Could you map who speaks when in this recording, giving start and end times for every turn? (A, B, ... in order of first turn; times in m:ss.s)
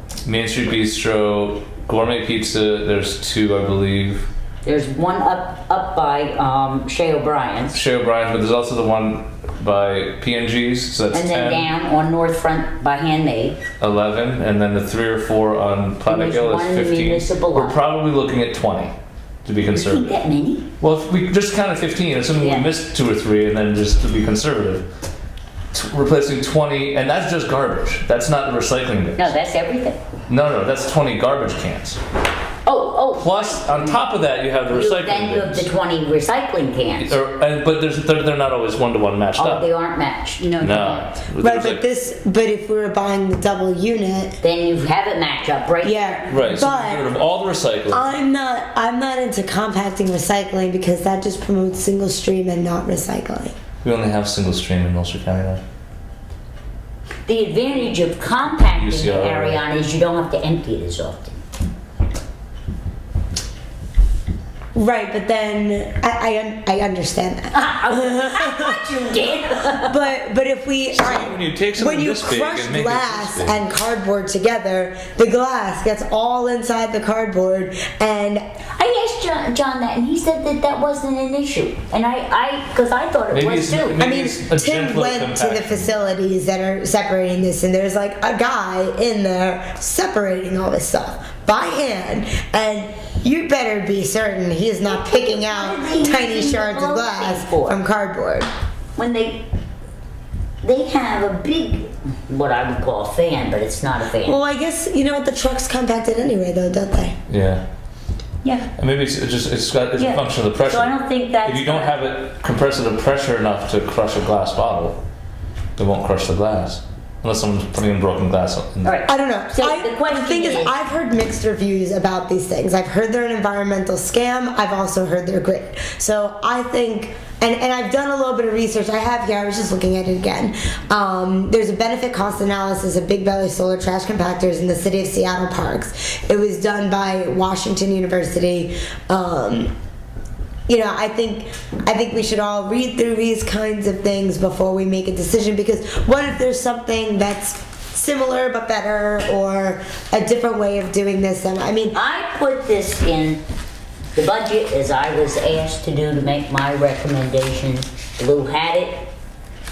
0:00.2-0:04.3 A
0:04.6-0:07.8 B
0:07.7-0:11.7 A
0:11.1-0:13.6 B
0:13.8-0:20.2 A
0:16.0-0:17.8 B
0:19.7-0:20.7 B
0:20.8-0:24.9 A
0:22.4-0:22.7 B
0:25.7-0:29.3 A
0:29.2-0:30.0 B
0:30.3-0:32.0 A
0:32.6-0:34.0 B
0:33.2-0:35.7 A
0:34.7-0:37.2 B
0:37.0-0:39.7 A
0:39.4-0:41.1 B
0:40.6-0:41.8 A
0:41.4-0:44.4 C
0:44.4-0:46.3 B
0:45.8-0:47.1 C
0:46.3-0:48.1 A
0:47.9-0:53.5 C
0:53.8-0:55.6 A
0:57.2-1:01.4 B
0:58.7-0:59.6 A
1:04.7-1:08.9 C
1:07.5-1:10.1 B
1:09.8-1:18.4 C
1:10.9-1:13.6 A
1:18.8-1:24.0 B
1:23.3-1:25.9 A
1:24.0-1:38.5 C
1:34.8-1:37.8 B
1:39.0-1:39.4 B
1:40.6-1:44.4 B
1:44.2-1:47.2 C
1:47.3-1:47.6 A
1:48.4-1:48.7 B
1:48.8-1:55.0 A
1:50.0-1:52.0 B
1:55.8-1:58.9 A
1:58.8-2:00.8 B
1:59.1-2:19.7 C
2:20.7-2:32.0 C
2:31.9-2:33.4 B
2:34.1-2:39.1 B